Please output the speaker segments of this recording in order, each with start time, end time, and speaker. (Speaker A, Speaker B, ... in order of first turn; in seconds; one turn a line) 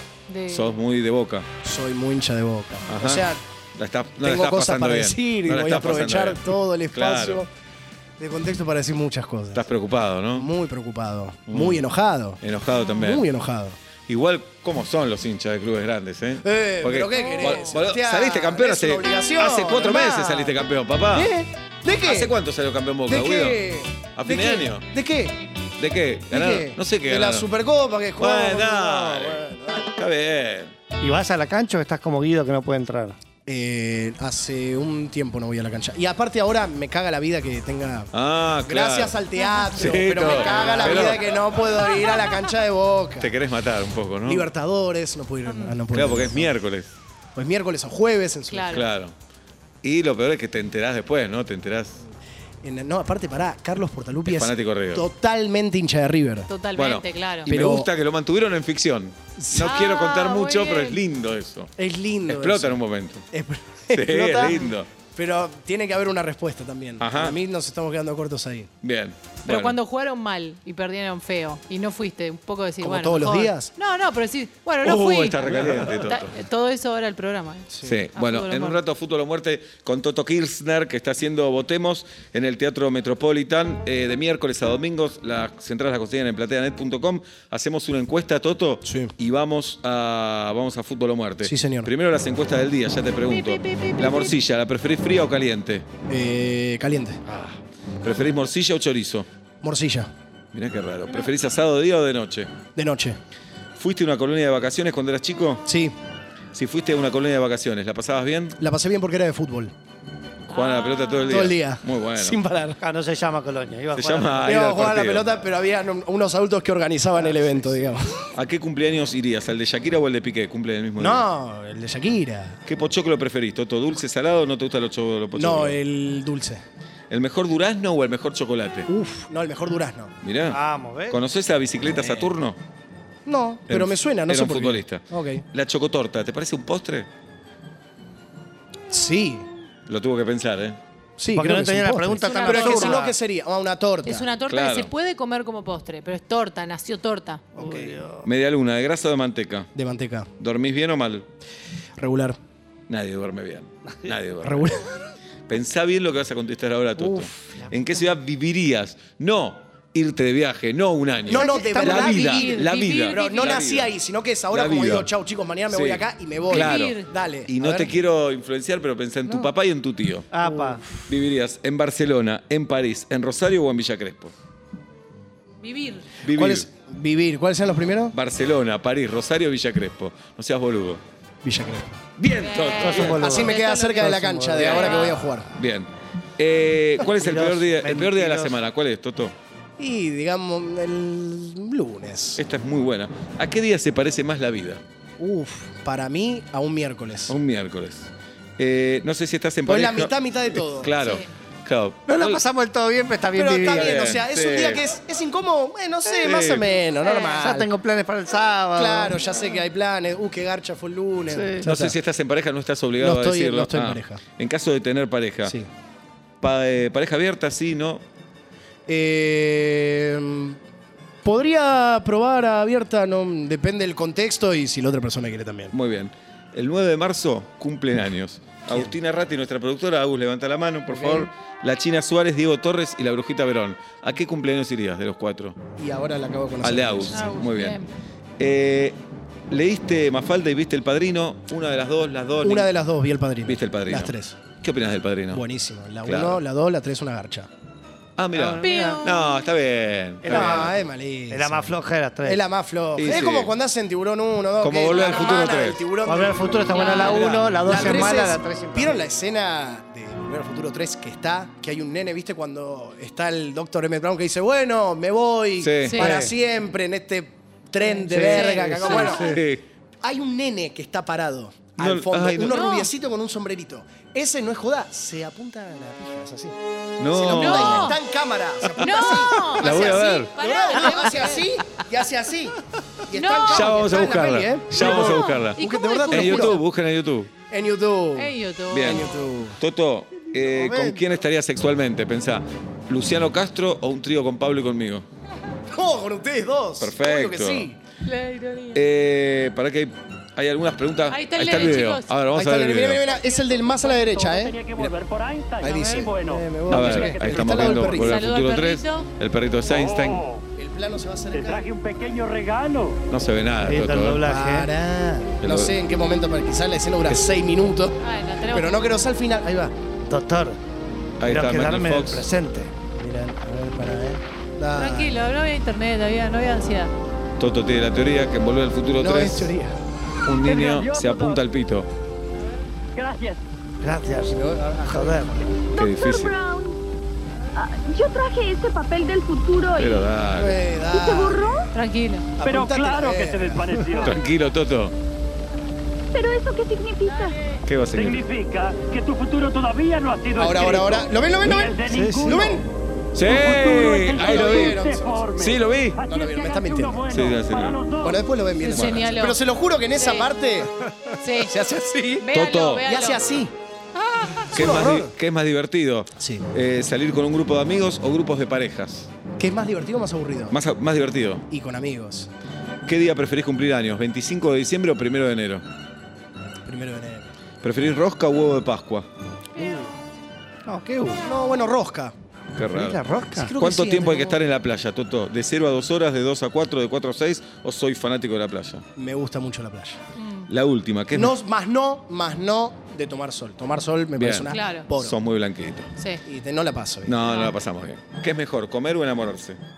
Speaker A: 0.3-0.8
Speaker B: 0.5-1.5
Speaker C: 1.6-3.4
Speaker B: 2.9-3.2
Speaker B: 3.8-7.4
Speaker C: 4.2-7.5
Speaker C: 8.2-9.6
Speaker B: 9.5-10.5
Speaker C: 10.3-12.4
Speaker B: 11.5-11.8
Speaker B: 12.4-13.2
Speaker C: 12.9-13.8
Speaker B: 14.1-21.3
Speaker C: 16.4-20.6
Speaker A: 17.1-17.7
Speaker C: 21.1-22.3
Speaker B: 22.0-23.6
Speaker C: 23.1-25.3
Speaker B: 24.1-24.9
Speaker B: 25.8-27.5
Speaker C: 26.3-29.9
Speaker B: 28.2-30.7
Speaker D: 31.0-33.2
Speaker C: 33.5-38.1
Speaker B: 38.1-39.2
Speaker C: 38.6-43.3
Speaker A: 39.4-41.1
Speaker B: 39.7-41.3
Speaker B: 43.2-44.5
Speaker C: 44.2-46.5
Speaker B: 45.9-46.9
Speaker C: 47.3-48.9
Speaker A: 48.5-48.9
Speaker B: 48.7-49.1
Speaker B: 49.8-52.0
Speaker C: 52.6-56.5
Speaker B: 54.2-55.1
Speaker A: 56.5-57.5
Speaker B: 56.7-61.7
Speaker C: 57.5-57.9
Speaker C: 59.4-59.7
Speaker A: 59.5-61.0
Speaker C: 61.8-68.7
Speaker B: 62.2-63.2
Speaker B: 63.9-64.9
Speaker A: 64.4-64.7
Speaker B: 67.0-67.4
Speaker B: 68.8-69.8
Speaker A: 69.5-78.8
Speaker C: 72.8-73.7
Speaker B: 74.8-76.3
Speaker C: 77.7-78.0
Speaker B: 77.8-95.9
Speaker C: 88.8-89.1
Speaker C: 91.4-91.9
Speaker A: 93.3-94.3
Speaker C: 96.1-97.2
Speaker B: 97.2-99.3
Speaker C: 99.6-100.1
Speaker B: 100.5-102.5
Speaker C: 102.7-103.2
Speaker B: 103.8-105.7
Speaker C: 105.7-105.9
Speaker B: 106.5-108.6
Speaker C: 108.6-109.7
Speaker B: 110.4-112.4
Speaker A: 110.5-111.3
Speaker C: 111.3-112.8
Speaker D: 112.8-114.5
Speaker B: 113.9-115.5
Speaker C: 114.4-118.3
Speaker B: 118.3-121.3
Speaker C: 121.0-122.6
Speaker B: 122.7-125.8
Speaker C: 125.3-126.6
Speaker B: 127.1-128.9
Speaker C: 128.9-130.1
Speaker B: 130.2-132.6
Speaker D: 130.5-131.2
Speaker C: 133.2-135.4
Speaker B: 133.7-137.1
Speaker C: 138.9-139.4
Speaker B: 139.9-140.8
Speaker C: 141.2-144.2
Speaker D: 141.3-143.1
Speaker A: 142.2-143.1
Speaker A: 144.1-147.4
Speaker B: 144.5-144.9
Speaker D: 147.6-148.3
Speaker B: 148.2-149.7
Speaker C: 149.7-150.3
Speaker B: 150.4-151.3
Speaker C: 152.0-152.4
Speaker B: 152.9-154.8
Speaker C: 154.4-155.0
Speaker B: 155.5-163.9
Speaker C: 157.0-157.6
Speaker C: 161.2-167.9
Speaker A: 161.3-163.6
Speaker B: 164.5-165.1
Speaker B: 165.7-170.3
Speaker A: 166.5-167.1
Speaker D: 170.3-170.8
Speaker C: 170.4-171.1
Speaker B: 171.1-174.3
Speaker A: 175.6-176.1
Speaker B: 176.2-176.7
Speaker C: 176.3-178.1
Speaker B: 178.1-181.0
Speaker C: 181.4-182.0
Speaker B: 182.2-183.3
Speaker A: 182.3-185.3
Speaker D: 182.8-185.1
Speaker C: 183.1-185.5
Speaker B: 185.5-189.3
Speaker D: 187.0-188.6
Speaker C: 189.8-192.4
Speaker B: 192.4-194.8
Speaker C: 195.2-197.4
Speaker B: 197.3-202.4
Speaker C: 199.7-200.9
Speaker A: 201.0-201.3
Speaker D: 202.1-203.9
Speaker C: 203.3-207.7
Speaker B: 203.7-204.8
Speaker B: 206.1-206.7
Speaker D: 207.1-209.2
Speaker C: 208.7-211.9
Speaker D: 211.3-211.6
Speaker B: 211.6-215.6
Speaker C: 213.0-214.2
Speaker B: 216.4-218.0
Speaker C: 218.9-220.6
Speaker C: 221.2-225.7
Speaker B: 225.7-235.6
Speaker C: 230.9-231.3
Speaker C: 235.8-237.2
Speaker B: 236.6-237.8
Speaker A: 237.1-237.9
Speaker B: 238.4-239.0
Speaker B: 239.5-242.7
Speaker C: 242.4-244.4
Speaker B: 243.4-245.4
Speaker C: 245.3-247.5
Speaker B: 246.1-246.4
Speaker B: 248.2-250.7
Speaker D: 248.3-249.1
Speaker A: 248.6-249.5
Speaker D: 250.2-250.7
Speaker C: 250.3-269.4
Speaker D: 251.3-252.4
Speaker B: 252.9-253.5
Speaker B: 254.6-255.8
Speaker A: 255.0-255.4
Speaker D: 256.0-259.1
Speaker A: 256.7-257.3
Speaker B: 256.8-258.0
Speaker B: 265.6-266.2
Speaker A: 265.8-266.2
Speaker D: 268.1-269.0
Speaker A: 268.1-269.4
Speaker B: 268.3-269.6
Speaker C: 270.0-276.6
Speaker B: 271.8-272.7
Speaker A: 272.4-272.9
Speaker B: 277.0-278.0
Speaker C: 277.1-286.6
Speaker A: 277.2-278.0
Speaker A: 278.8-281.4
Speaker B: 278.8-280.8
Speaker A: 283.1-283.9
Speaker B: 283.5-287.3
Speaker A: 284.8-286.6
Speaker C: 287.5-289.6
Speaker A: 288.1-289.0
Speaker B: 288.7-295.1
Speaker D: 290.6-290.9
Speaker C: 295.7-297.8
Speaker B: 296.8-297.7
Speaker A: 298.0-298.8
Speaker B: 298.7-303.0
Speaker A: 301.1-302.1
Speaker C: 302.3-304.9
Speaker E: 302.9-307.6
Speaker C: 305.6-308.2
Speaker B: 306.7-310.2
Speaker A: 307.6-309.1
Speaker E: 309.7-310.4
Speaker C: 310.6-311.7
Speaker E: 311.3-313.0
Speaker B: 313.1-314.2
Speaker D: 313.6-314.7
Speaker C: 314.2-318.0
Speaker B: 315.4-315.8
Speaker A: 318.0-318.9
Speaker C: 318.5-319.7
Speaker D: 320.1-320.6
Speaker B: 321.2-322.3
Speaker D: 321.2-322.7
Speaker C: 322.9-325.1
Speaker A: 324.7-326.9
Speaker B: 327.4-329.5
Speaker C: 329.0-329.8
Speaker B: 330.2-331.9
Speaker E: 330.4-331.4
Speaker E: 332.9-333.4
Speaker D: 333.8-335.4
Speaker C: 334.3-335.4
Speaker F: 335.7-336.8
Speaker B: 335.7-336.3
Speaker F: 337.5-340.1
Speaker B: 339.7-340.6
Speaker C: 340.4-341.8
Speaker F: 340.9-341.7
Speaker A: 341.7-342.3
Speaker C: 342.4-343.7
Speaker E: 342.4-344.2
Speaker B: 344.0-344.9
Speaker F: 346.1-347.3
Speaker B: 347.6-348.2
Speaker E: 347.9-352.4
Speaker C: 350.4-352.6
Speaker D: 351.9-352.6
Speaker B: 353.1-354.8
Speaker E: 353.2-358.3
Speaker C: 353.3-355.2
Speaker B: 355.4-356.0
Speaker C: 356.0-357.3
Speaker B: 357.1-357.8
Speaker C: 358.0-360.7
Speaker A: 358.6-360.3
Speaker B: 358.7-359.0
Speaker A: 361.2-361.5
Speaker C: 361.3-362.2
Speaker A: 362.2-363.2
Speaker B: 362.3-362.9
Speaker C: 362.8-363.5
Speaker A: 364.1-364.4
Speaker C: 364.5-365.1
Speaker B: 364.5-369.1
Speaker C: 366.2-366.5
Speaker C: 369.4-370.6
Speaker B: 370.5-371.4
Speaker C: 371.5-372.3
Speaker B: 372.8-375.6
Speaker C: 376.6-377.3
Speaker B: 377.6-379.1
Speaker D: 379.6-379.9
Speaker D: 380.6-381.2
Speaker C: 381.2-382.1
Speaker B: 382.5-383.0
Speaker D: 382.7-383.5
Speaker C: 383.4-384.4
Speaker B: 383.6-388.9
Speaker C: 388.9-390.0
Speaker A: 390.2-390.5
Speaker B: 390.5-391.4
Speaker C: 391.1-395.2
Speaker B: 394.1-395.9
Speaker A: 394.5-394.9
Speaker C: 396.2-397.1
Speaker B: 397.1-399.6
Speaker A: 397.2-397.6